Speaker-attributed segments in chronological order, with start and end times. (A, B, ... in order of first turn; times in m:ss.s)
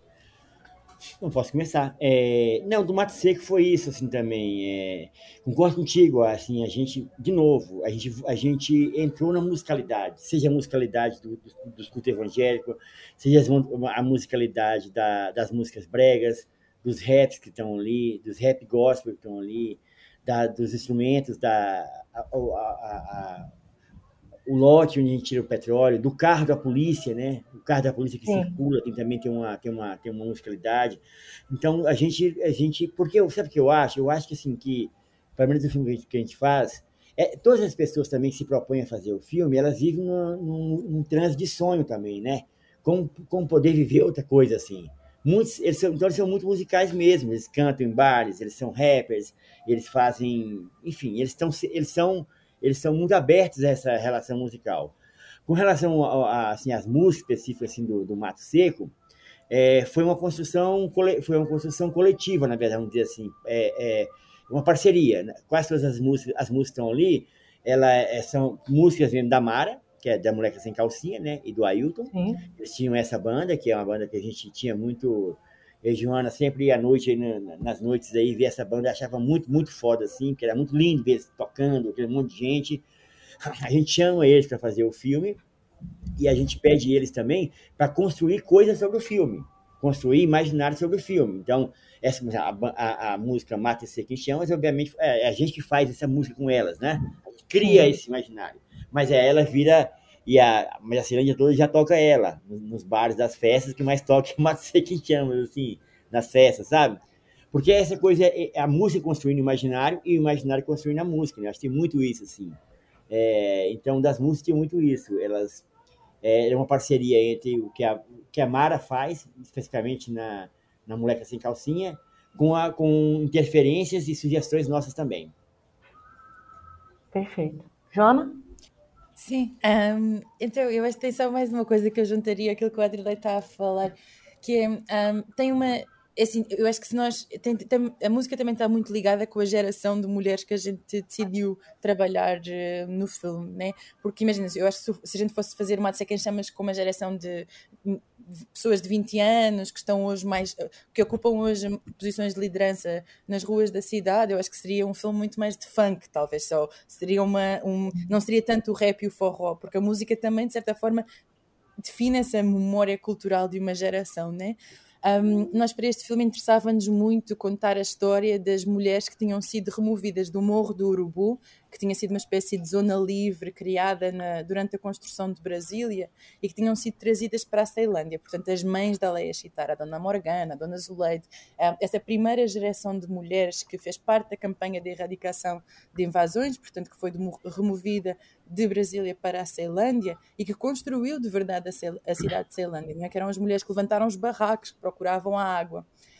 0:01.2-0:23.5 A
0:24.5-0:55.0 A
0:28.2-0:28.6 B
0:55.5-0:58.9 A
0:59.5-1:22.8 A
1:12.1-1:12.4 B
1:23.4-1:25.4 A
1:26.2-1:47.0 A
1:37.6-1:38.0 B
1:47.5-1:52.6 A
1:53.1-1:55.7 A
1:56.2-2:05.3 A
2:07.1-2:08.4 B
2:09.2-2:41.0 C
2:41.8-3:15.9 C